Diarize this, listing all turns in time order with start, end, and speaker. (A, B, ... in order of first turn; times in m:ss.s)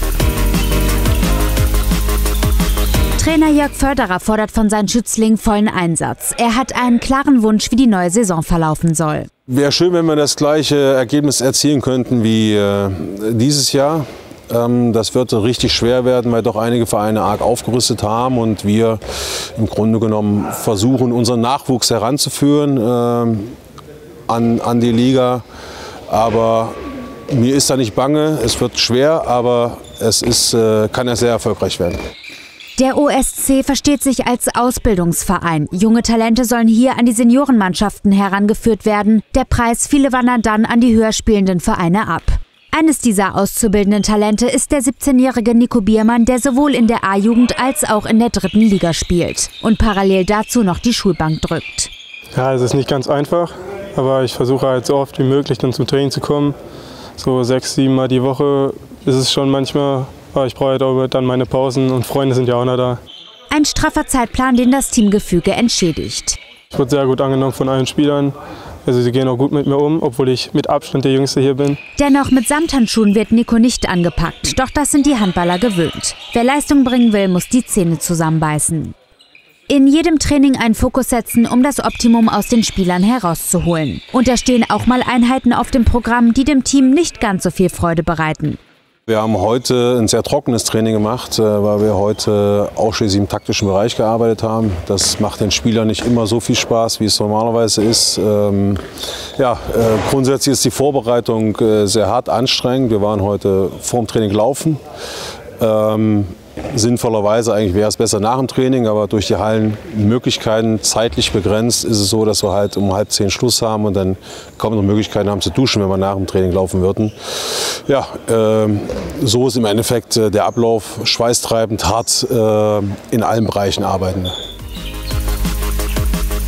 0:03.2-0:09.3 A
0:09.5-0:23.6 B
0:24.3-0:25.4 B
0:26.1-0:26.8 B
0:27.3-0:32.0 B
0:32.8-0:51.9 A
0:52.4-0:56.6 C
0:57.2-1:03.0 C
1:03.5-1:06.4 A
1:06.7-1:11.8 C
1:12.0-1:19.0 A
1:19.7-1:28.6 A
1:29.1-1:38.8 B
1:39.4-1:44.8 B
1:45.6-2:04.4 B